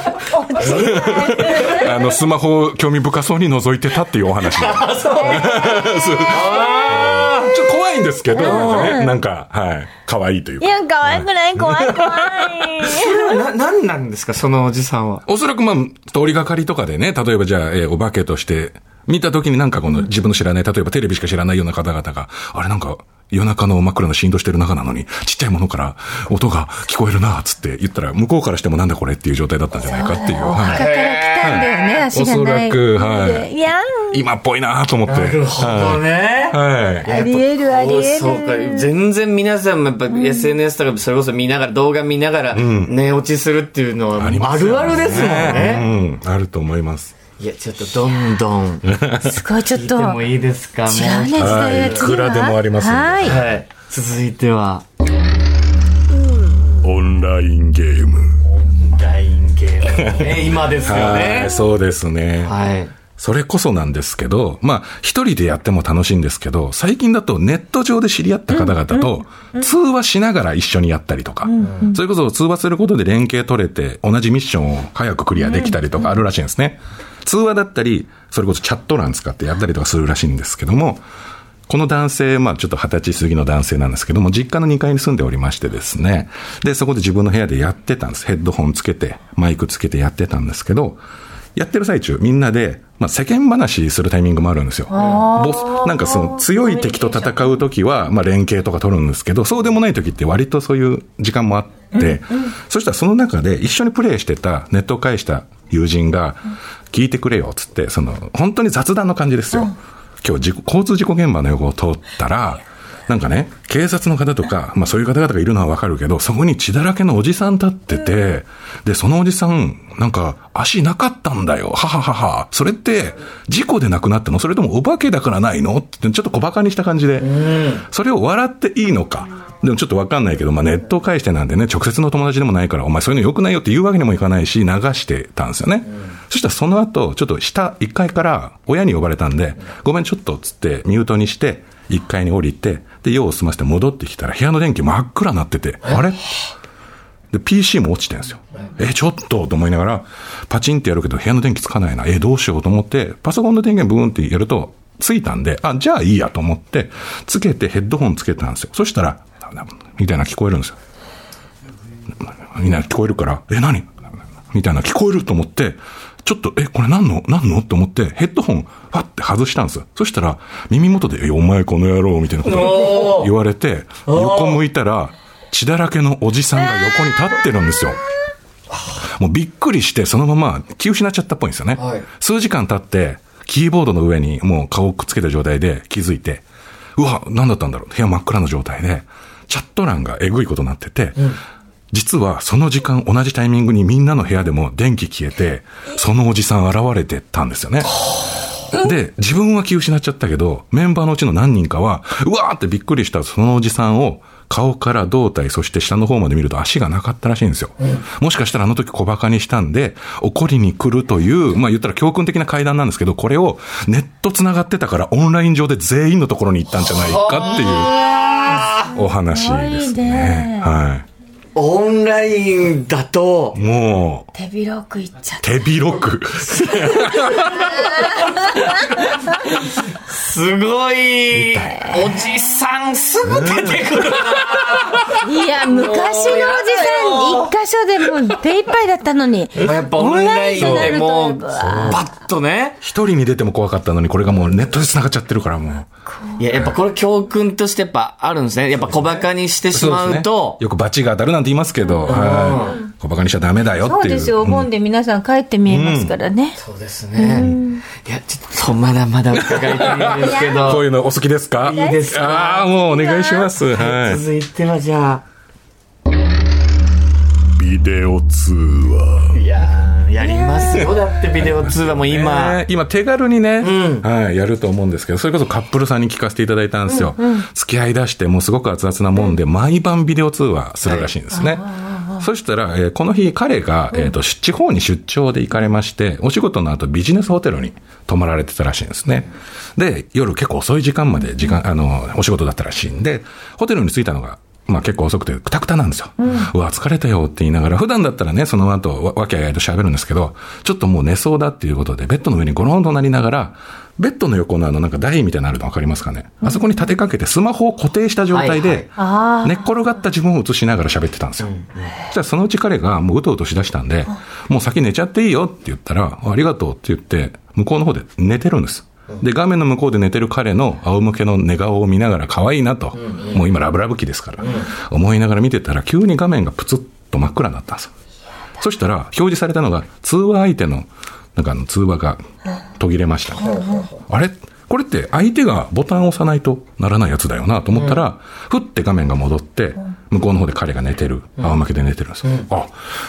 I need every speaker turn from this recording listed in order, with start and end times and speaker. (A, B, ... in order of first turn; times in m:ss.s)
0:00.3-0:02.0 A
0:00.6-0:01.8 B
0:00.6-0:12.8 C
0:04.5-0:07.5 B
0:05.1-0:07.4 A
0:08.3-0:09.1 A
0:08.3-0:09.0 B
0:10.6-0:13.4 A
0:12.8-0:15.2 B
0:15.2-0:30.8 C
0:29.9-0:34.2 A
0:30.5-0:32.0 B
0:31.4-0:33.5 C
0:34.1-0:37.1 C
0:35.0-0:45.9 B
0:37.0-0:38.9 A
0:40.1-0:40.5 A
0:42.5-0:42.9 C
0:44.2-0:47.1 C
0:47.4-0:49.0 B
0:48.9-0:49.3 C
0:49.2-0:50.2 A
0:49.6-0:52.1 B
0:50.8-0:53.4 A
0:51.4-0:53.4 C
0:53.2-0:54.8 B
0:56.8-0:58.2 C
0:58.4-1:01.6 B
0:59.9-1:02.5 C
1:02.4-1:02.9 B
1:03.2-1:21.0 C
1:08.5-1:09.1 A
1:11.4-1:12.0 A
1:15.4-1:16.0 A
1:21.7-1:31.0 C
1:31.5-2:26.4 C
1:34.9-1:37.5 A
1:35.0-1:35.2 B
1:41.9-1:42.3 A
2:07.2-2:07.8 B
2:27.3-2:40.8 C
2:42.2-2:58.0 C
2:52.4-2:53.3 B
2:54.0-2:54.6 B
2:58.7-2:59.0 B
2:59.0-3:06.4 C
3:01.8-3:02.0 B
3:07.0-3:11.4 C
3:11.9-3:18.0 C
3:18.7-3:37.9 C
3:36.8-3:38.9 B
3:38.8-3:41.0 C
3:39.3-3:40.7 A
3:41.6-3:43.6 B
3:43.5-3:44.3 C
3:44.3-3:45.5 A
3:45.4-3:47.6 C
3:46.5-3:57.5 B
3:47.7-3:48.7 A
3:51.3-3:51.7 C
3:51.7-3:52.0 A
3:53.2-3:53.9 C
3:55.2-4:02.0 A
3:59.6-4:02.8 B
4:00.6-4:01.0 C
4:01.6-4:02.0 C
4:02.8-4:05.9 C
4:06.4-4:10.6 B
4:09.7-4:14.7 C
4:11.8-4:12.1 A
4:12.1-4:12.8 B
4:13.8-4:16.6 A
4:15.6-4:16.1 C
4:16.6-4:20.9 B
4:17.2-4:17.8 A
4:19.3-4:24.2 C
4:20.1-4:20.8 A
4:21.6-4:22.7 B
4:21.7-4:22.0 A
4:22.7-4:23.5 A
4:23.7-4:25.2 B
4:27.6-4:29.3 C
4:29.3-4:32.6 B
4:30.2-4:30.9 A
4:30.7-5:11.5 C
4:33.6-4:34.1 B
4:36.9-4:37.4 A
4:40.8-4:41.1 B
4:41.3-4:42.2 A
4:56.2-4:56.5 A
5:06.4-5:06.8 A
5:08.3-5:08.9 B
5:09.0-5:09.6 A
5:11.4-5:11.9 B
5:12.0-5:27.9 C
5:23.0-5:23.4 B
5:24.4-5:24.7 B
5:28.6-5:32.2 C
5:32.8-5:42.8 C
5:33.4-5:33.9 B
5:42.2-5:42.5 B